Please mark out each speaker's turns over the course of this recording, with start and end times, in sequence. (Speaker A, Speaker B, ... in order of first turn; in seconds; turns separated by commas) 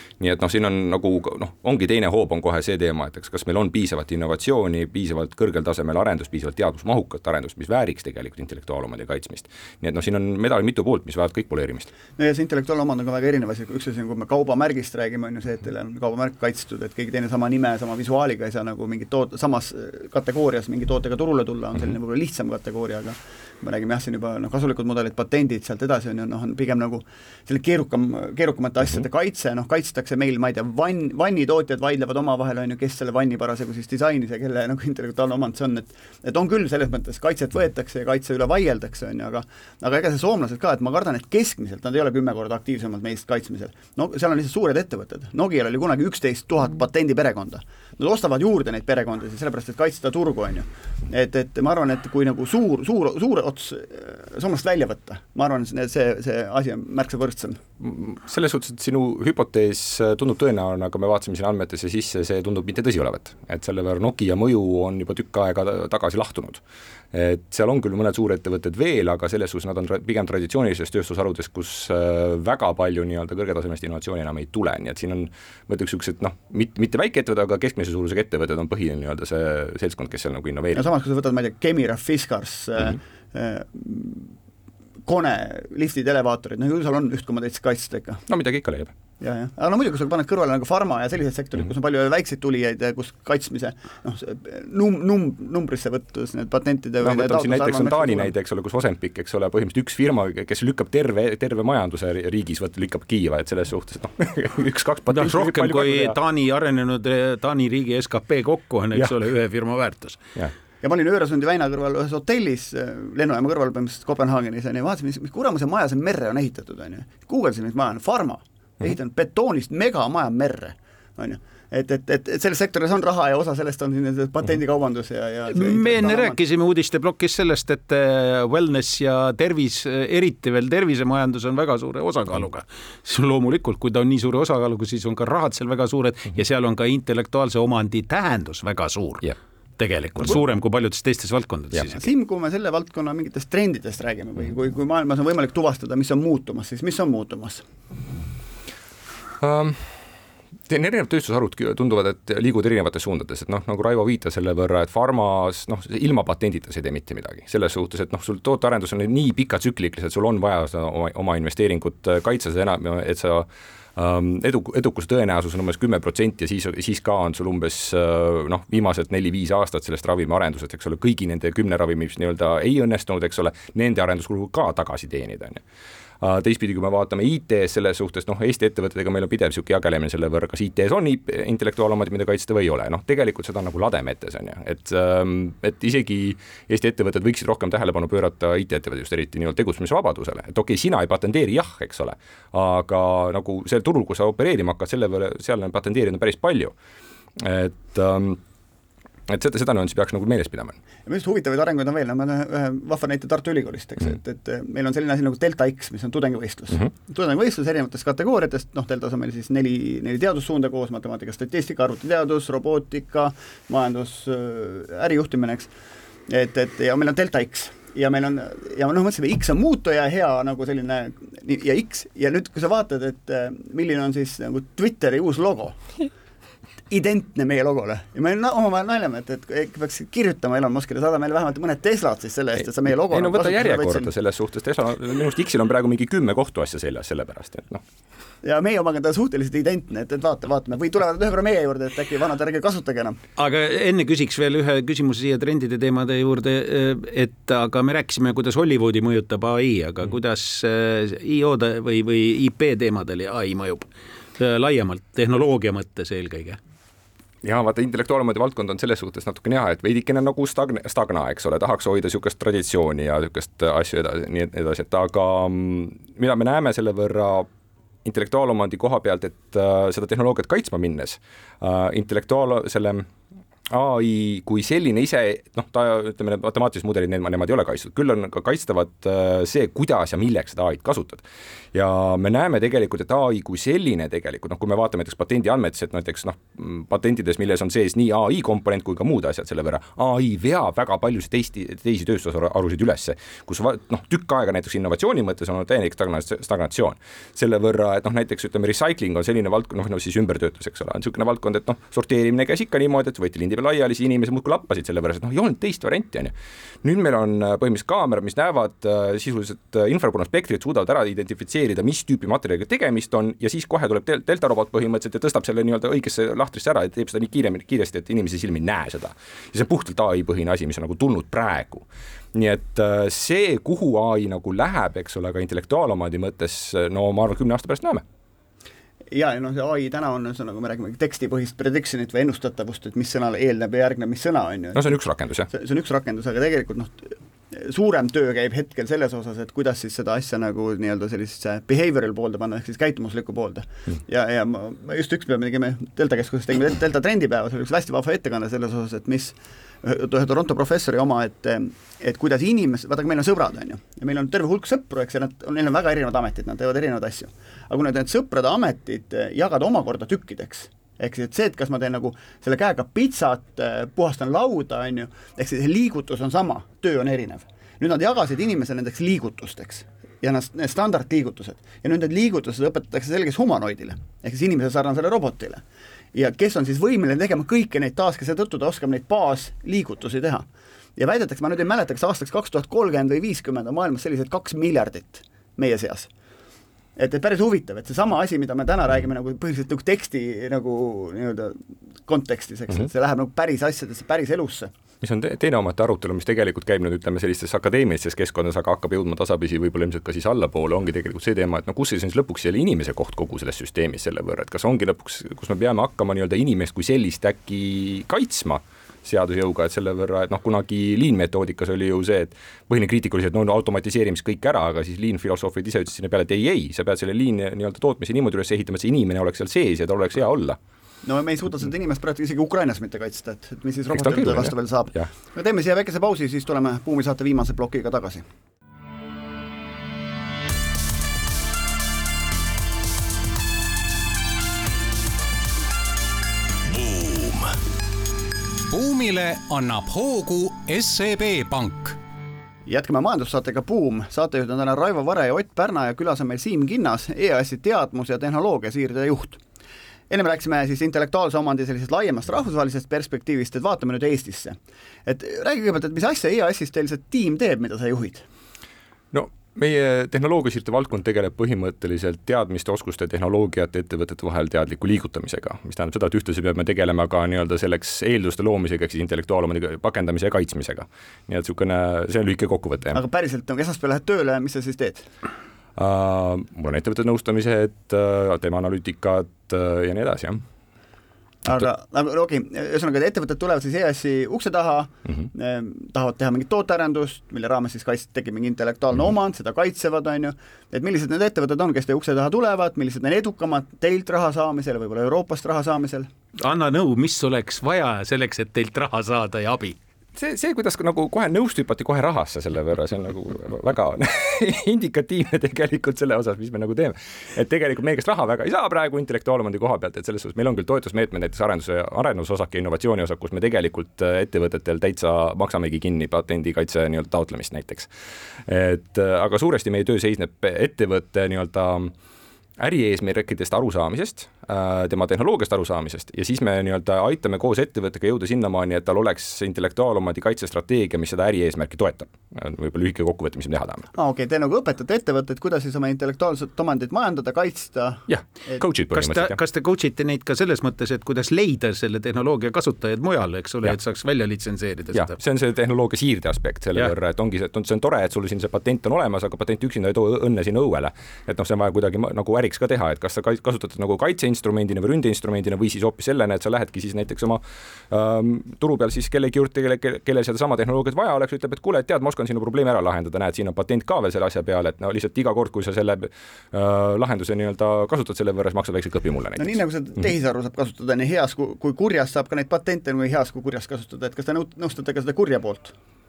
Speaker A: 0.2-11.9, Speaker B: 12.2-57.6, Speaker A: 57.8-66.6, Speaker A: 67.1-80.9, Speaker B: 80.7-84.3, Speaker B: 85.1-88.2, Speaker A: 88.3-89.0, Speaker B: 89.2-98.3, Speaker A: 97.0-106.2, Speaker C: 105.1-110.2, Speaker B: 110.8-126.4, Speaker C: 125.5-142.1, Speaker B: 141.9-147.6, Speaker A: 149.4-149.9, Speaker A: 150.7-175.6, Speaker A: 176.2-196.7, Speaker A: 197.4-198.4, Speaker A: 199.3-200.8, Speaker B: 201.1-215.7, Speaker B: 216.3-225.8, Speaker B: 226.9-234.1, Speaker A: 232.9-237.8, Speaker B: 238.4-243.2, Speaker C: 243.4-256.6, Speaker A: 257.4-267.5, Speaker A: 268.1-273.1, Speaker A: 273.7-328.0, Speaker B: 329.1-334.9, Speaker A: 334.8-335.5, Speaker B: 335.5-375.6, Speaker B: 376.1-380.5, Speaker B: 381.0-386.1, Speaker B: 387.0-394.7, Speaker A: 395.0-420.6, Speaker B: 421.0-428.2, Speaker A: 423.9-425.1, Speaker D: 438.7-442.0, Speaker B: 442.7-449.4, Speaker B: 450.1-458.2, Speaker A: 459.1-473.0, Speaker B: 472.9-475.1, Speaker A: 475.8-480.4, Speaker B: 481.4-496.1, Speaker C: 496.4-499.8, Speaker A: 500.2-517.9, Speaker A: 518.5-521.9, Speaker A: 522.6-533.9, Speaker B: 534.0-538.6, Speaker A: 538.1-539.4, Speaker C: 538.9-545.2, Speaker A: 544.9-569.6, Speaker B: 569.4-575.7